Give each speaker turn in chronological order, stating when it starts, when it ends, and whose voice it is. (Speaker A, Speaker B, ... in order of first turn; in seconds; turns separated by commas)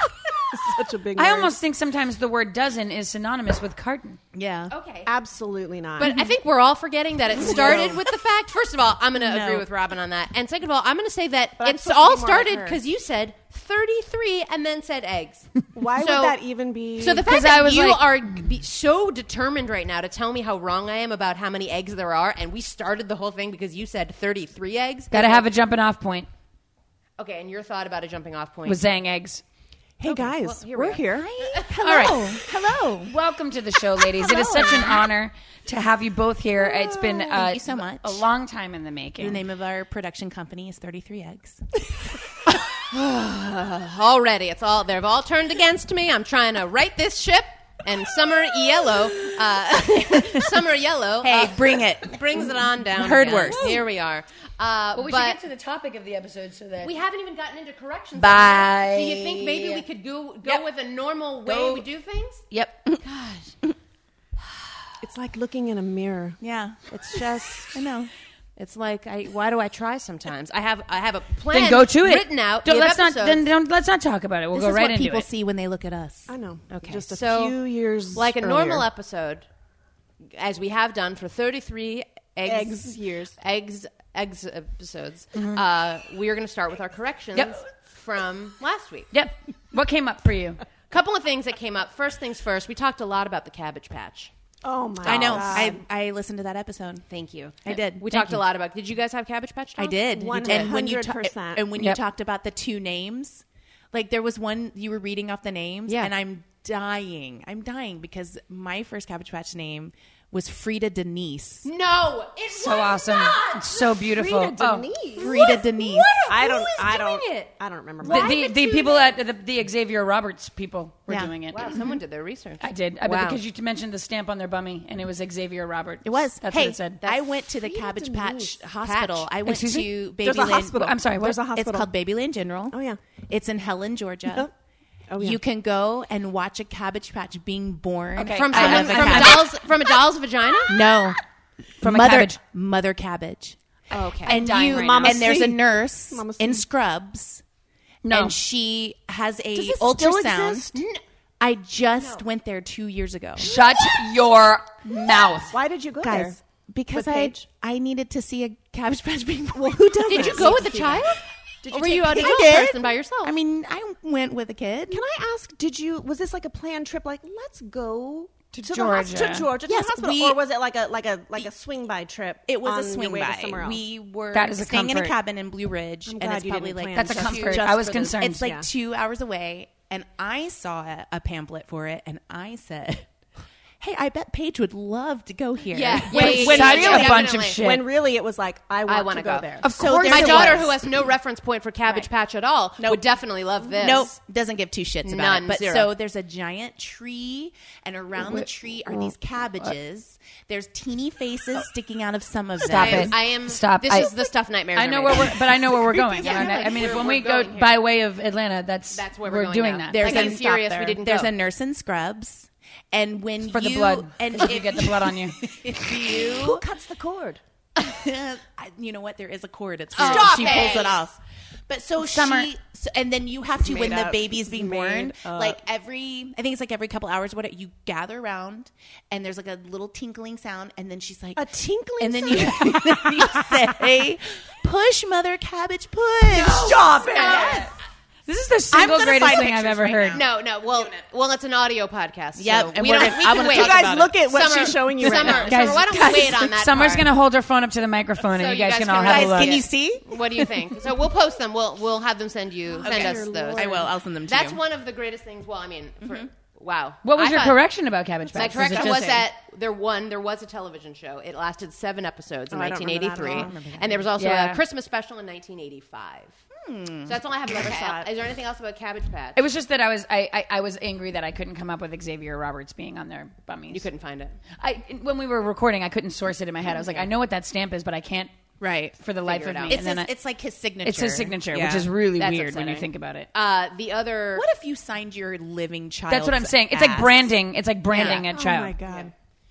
Speaker A: 0.5-1.5, Speaker B: 1.2-4.2, Speaker C: 4.3-4.7, Speaker D: 4.7-5.1, Speaker A: 5.0-6.3, Speaker D: 6.0-16.4, Speaker A: 7.3-8.0, Speaker C: 7.5-7.9, Speaker C: 9.2-9.7, Speaker A: 11.6-12.8, Speaker A: 15.7-17.3, Speaker D: 17.0-25.5, Speaker B: 17.2-18.1, Speaker B: 25.1-26.3, Speaker D: 27.2-28.9, Speaker B: 28.6-29.4, Speaker A: 30.0-32.4, Speaker C: 30.0-30.4, Speaker D: 30.2-31.6, Speaker C: 31.5-33.1, Speaker B: 31.8-32.3, Speaker B: 33.0-39.4, Speaker C: 34.2-34.9, Speaker C: 37.2-38.2, Speaker C: 39.2-41.6, Speaker D: 42.9-55.4, Speaker C: 50.2-50.5, Speaker C: 51.2-53.8, Speaker B: 54.9-56.9, Speaker D: 56.8-62.5, Speaker B: 58.2-59.8, Speaker B: 61.5-61.8, Speaker B: 62.5-62.8, Speaker D: 63.0-63.5, Speaker A: 65.0-66.4, Speaker C: 66.4-68.1, Speaker D: 66.9-67.7, Speaker D: 68.6-73.5, Speaker B: 71.5-75.3, Speaker C: 74.5-76.3, Speaker A: 76.3-78.8, Speaker D: 76.7-77.6, Speaker D: 78.1-79.4, Speaker D: 80.3-89.1, Speaker A: 82.4-83.3, Speaker B: 85.3-85.6, Speaker B: 89.1-90.6, Speaker D: 90.9-94.3, Speaker A: 94.6-95.8, Speaker C: 95.0-97.0, Speaker D: 95.1-95.6, Speaker D: 97.1-100.7, Speaker C: 97.6-98.4, Speaker C: 99.8-111.7, Speaker A: 100.1-101.7, Speaker D: 105.9-106.1, Speaker D: 111.6-114.0, Speaker B: 112.5-114.9, Speaker A: 114.0-115.3, Speaker C: 115.2-116.1, Speaker D: 115.2-119.2, Speaker A: 116.2-118.4, Speaker B: 118.0-121.7, Speaker C: 121.1-121.3, Speaker D: 121.5-123.4, Speaker B: 122.6-127.0, Speaker C: 126.0-132.8, Speaker A: 127.6-128.6, Speaker D: 128.8-129.3, Speaker B: 129.4-130.0, Speaker A: 130.2-131.9, Speaker B: 130.6-131.4, Speaker A: 132.7-133.0, Speaker C: 133.3-134.5, Speaker A: 135.1-135.4, Speaker C: 135.2-139.6, Speaker B: 138.2-139.5, Speaker D: 138.3-140.9, Speaker A: 139.9-140.9, Speaker C: 140.7-141.2, Speaker B: 141.8-142.4, Speaker C: 141.8-143.6, Speaker D: 143.9-144.4, Speaker A: 143.9-146.6, Speaker B: 144.2-145.4, Speaker C: 144.2-147.4, Speaker B: 148.0-148.3, Speaker C: 148.1-150.8, Speaker A: 149.5-150.8, Speaker D: 150.7-151.0, Speaker C: 151.4-153.5, Speaker D: 152.0-152.2, Speaker B: 153.4-155.6, Speaker C: 154.8-155.4, Speaker A: 155.5-156.4, Speaker C: 156.0-161.1, Speaker A: 156.9-157.4, Speaker A: 159.9-161.0, Speaker D: 160.1-163.3, Speaker A: 161.6-162.9, Speaker C: 162.1-165.0, Speaker A: 164.9-173.8, Speaker B: 168.5-169.5, Speaker C: 169.6-170.4, Speaker C: 172.5-183.1, Speaker B: 174.3-175.2, Speaker A: 176.1-178.7, Speaker B: 176.9-178.5, Speaker C: 183.8-187.2, Speaker D: 185.7-187.7, Speaker B: 186.1-187.9, Speaker A: 186.1-190.7, Speaker D: 188.8-194.1, Speaker B: 189.6-190.6, Speaker C: 189.7-190.8, Speaker C: 192.8-193.0, Speaker C: 193.8-203.2, Speaker D: 195.0-195.9, Speaker B: 198.3-199.1, Speaker B: 202.6-204.1, Speaker D: 202.6-207.8, Speaker B: 204.7-210.3, Speaker C: 205.7-207.0, Speaker D: 208.9-211.3, Speaker C: 209.9-216.6, Speaker B: 213.4-215.4, Speaker A: 215.9-217.4, Speaker C: 217.8-231.4, Speaker D: 219.9-221.0, Speaker A: 220.0-221.1, Speaker B: 222.0-222.5, Speaker A: 223.6-225.6, Speaker A: 231.3-233.8, Speaker C: 232.0-237.7, Speaker A: 236.3-237.7, Speaker B: 236.5-237.5, Speaker D: 236.7-237.7, Speaker B: 238.3-240.2, Speaker C: 238.7-240.3, Speaker D: 240.1-247.1, Speaker C: 242.3-244.2, Speaker A: 242.8-245.8, Speaker C: 245.2-245.5, Speaker B: 245.3-249.6, Speaker D: 248.3-257.6, Speaker C: 249.0-250.6, Speaker A: 252.7-253.9, Speaker C: 252.8-254.6, Speaker B: 257.0-259.2, Speaker D: 258.3-266.4, Speaker A: 258.4-259.2, Speaker A: 262.5-263.6, Speaker C: 263.2-264.1, Speaker B: 264.1-264.6, Speaker C: 266.5-267.2, Speaker D: 267.1-269.4, Speaker A: 267.5-268.1, Speaker B: 269.3-273.9, Speaker D: 273.7-274.4, Speaker B: 274.6-278.3, Speaker C: 278.6-278.9, Speaker B: 279.0-280.1, Speaker D: 279.2-279.8, Speaker C: 279.7-281.9, Speaker B: 280.8-283.3, Speaker D: 282.1-284.4, Speaker C: 284.3-287.3, Speaker B: 286.1-288.8, Speaker C: 287.9-288.2, Speaker D: 287.9-288.2, Speaker A: 288.3-289.1